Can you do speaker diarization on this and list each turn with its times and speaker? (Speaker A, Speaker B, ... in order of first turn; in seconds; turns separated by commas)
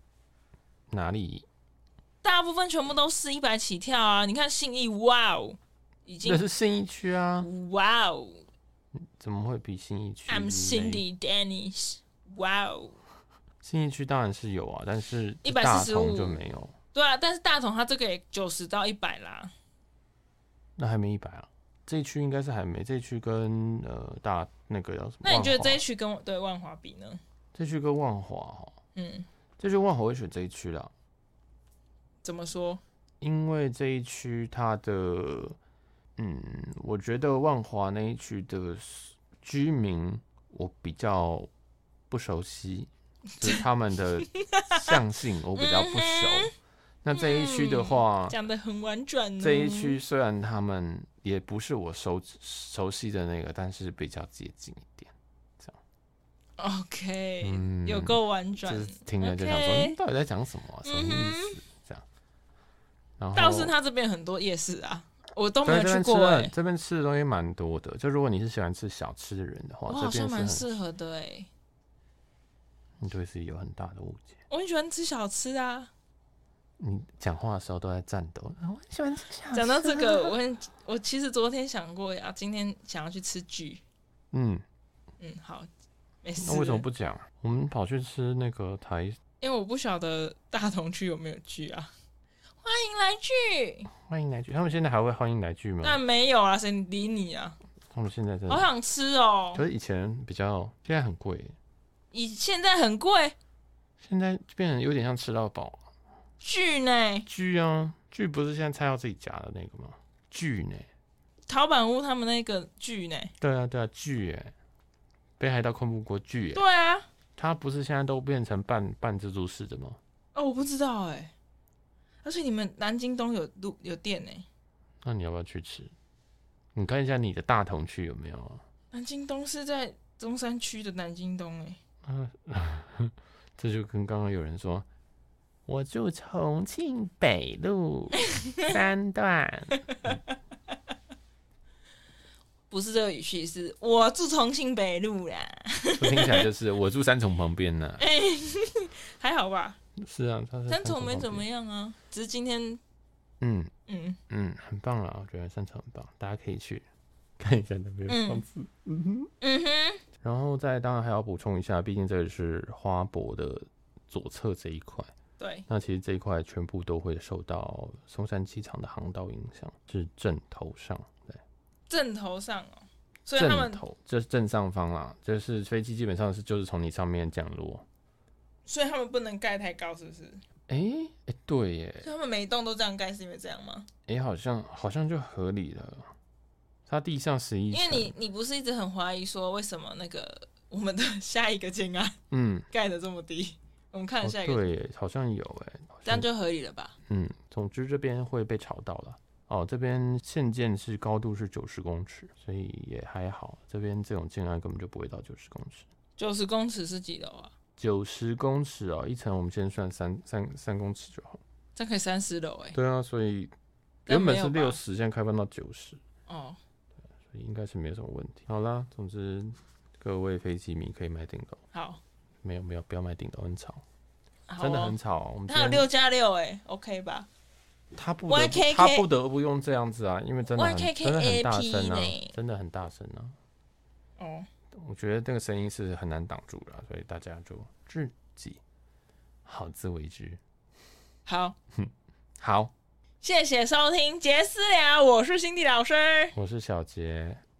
Speaker A: 0.9-1.4, Speaker B: 2.2-6.4, Speaker A: 6.2-7.5, Speaker B: 7.4-8.4, Speaker A: 9.0-11.0, Speaker B: 10.3-13.0, Speaker A: 13.6-16.7, Speaker B: 15.4-16.4, Speaker B: 16.9-19.5, Speaker A: 20.8-25.8, Speaker B: 25.2-27.2, Speaker A: 27.5-28.8, Speaker B: 28.9-29.3, Speaker A: 29.6-30.9, Speaker B: 32.2-32.8, Speaker A: 33.2-35.6, Speaker A: 36.2-41.5, Speaker A: 42.1-46.5, Speaker B: 44.5-44.9, Speaker B: 45.6-46.5, Speaker A: 47.0-48.4, Speaker B: 47.1-50.0, Speaker A: 49.4-55.8, Speaker B: 56.6-60.0, Speaker A: 57.4-62.0, Speaker B: 60.8-61.6, Speaker A: 63.2-63.7, Speaker B: 63.3-66.5, Speaker A: 65.6-70.7, Speaker B: 69.9-71.5, Speaker A: 73.0-74.4, Speaker B: 74.5-75.9, Speaker A: 76.8-80.3, Speaker B: 79.5-83.8, Speaker A: 84.3-84.6, Speaker B: 85.2-85.7, Speaker B: 86.2-86.8, Speaker A: 86.4-89.2, Speaker B: 89.4-91.9, Speaker B: 92.6-93.9, Speaker A: 93.9-96.0, Speaker B: 95.8-97.6, Speaker A: 97.9-98.7, Speaker B: 98.5-99.6, Speaker A: 99.5-101.5, Speaker B: 102.1-103.3, Speaker A: 104.0-105.8, Speaker B: 106.4-107.3, Speaker A: 107.3-110.9, Speaker B: 111.5-113.3, Speaker A: 113.4-114.5, Speaker A: 115.4-116.6, Speaker B: 116.5-117.0, Speaker A: 117.4-120.0, Speaker B: 120.3-121.3, Speaker B: 122.2-124.5, Speaker A: 125.0-125.9, Speaker A: 126.7-128.6, Speaker B: 128.9-131.8, Speaker A: 132.0-134.8, Speaker A: 135.7-140.2, Speaker B: 139.9-140.2, Speaker B: 142.7-146.5, Speaker A: 146.0-148.0, Speaker B: 148.0-149.8, Speaker A: 150.0-151.4, Speaker B: 150.7-152.8, Speaker A: 153.4-153.7, Speaker B: 153.9-154.2, Speaker A: 154.3-156.8, Speaker A: 157.4-159.3, Speaker B: 158.1-158.4, Speaker B: 159.4-160.0, Speaker A: 160.2-165.1, Speaker B: 165.4-165.7, Speaker A: 165.7-171.4, Speaker B: 171.9-173.8, Speaker A: 173.4-177.8, Speaker B: 178.7-180.4, Speaker A: 180.7-182.1, Speaker B: 182.0-183.9, Speaker A: 184.1-186.1, Speaker A: 186.9-188.1, Speaker B: 187.7-192.2, Speaker A: 192.3-192.7, Speaker B: 192.7-194.7, Speaker A: 194.2-196.3, Speaker B: 196.0-196.9, Speaker A: 197.1-205.9, Speaker B: 206.2-207.5, Speaker A: 207.8-211.4, Speaker B: 211.8-212.8, Speaker A: 212.7-213.5, Speaker B: 214.1-214.8, Speaker A: 214.1-216.0, Speaker B: 216.3-216.6, Speaker A: 217.3-221.6, Speaker B: 221.7-222.0, Speaker A: 222.4-223.8, Speaker B: 224.5-225.0, Speaker A: 224.6-225.9, Speaker B: 225.5-227.3, Speaker A: 227.9-233.3, Speaker B: 228.3-229.1, Speaker B: 230.5-232.3, Speaker B: 234.2-234.5, Speaker A: 234.7-238.6, Speaker A: 239.4-240.4, Speaker B: 241.2-241.6, Speaker A: 241.7-242.7, Speaker B: 243.2-246.3, Speaker A: 246.3-247.4